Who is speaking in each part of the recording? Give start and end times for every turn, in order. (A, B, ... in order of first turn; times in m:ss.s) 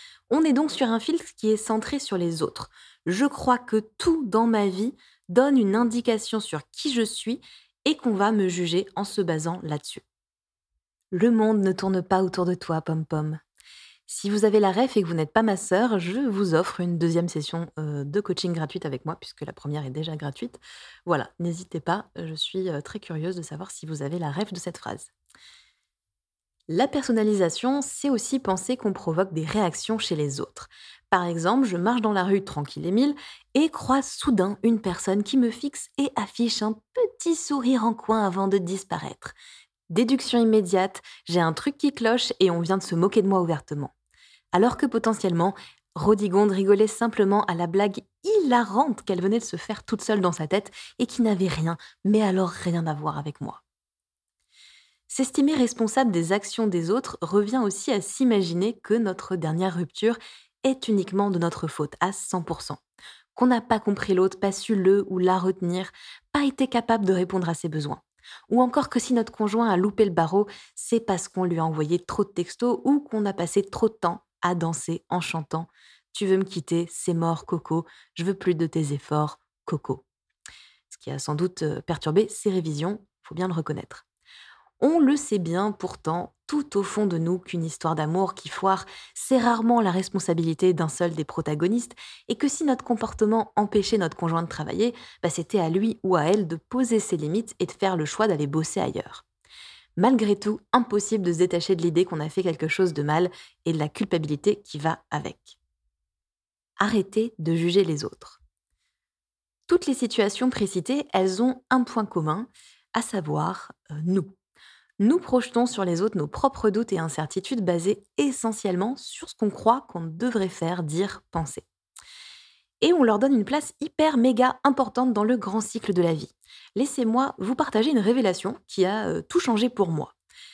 0:00.3-0:10.0 A
0:11.1-0:13.4 A
0:14.1-0:25.1 A
0:26.7-0:39.3 A
0:39.9-0:43.9 A
0:44.5-0:53.6 A
0:55.1-1:02.8 A
1:03.3-1:20.0 A
1:20.9-1:24.0 A
1:24.8-1:39.2 A
1:40.0-1:45.6 A
1:46.8-1:48.4 A
1:49.7-1:54.3 A
1:55.0-2:01.6 A
2:02.8-2:10.1 A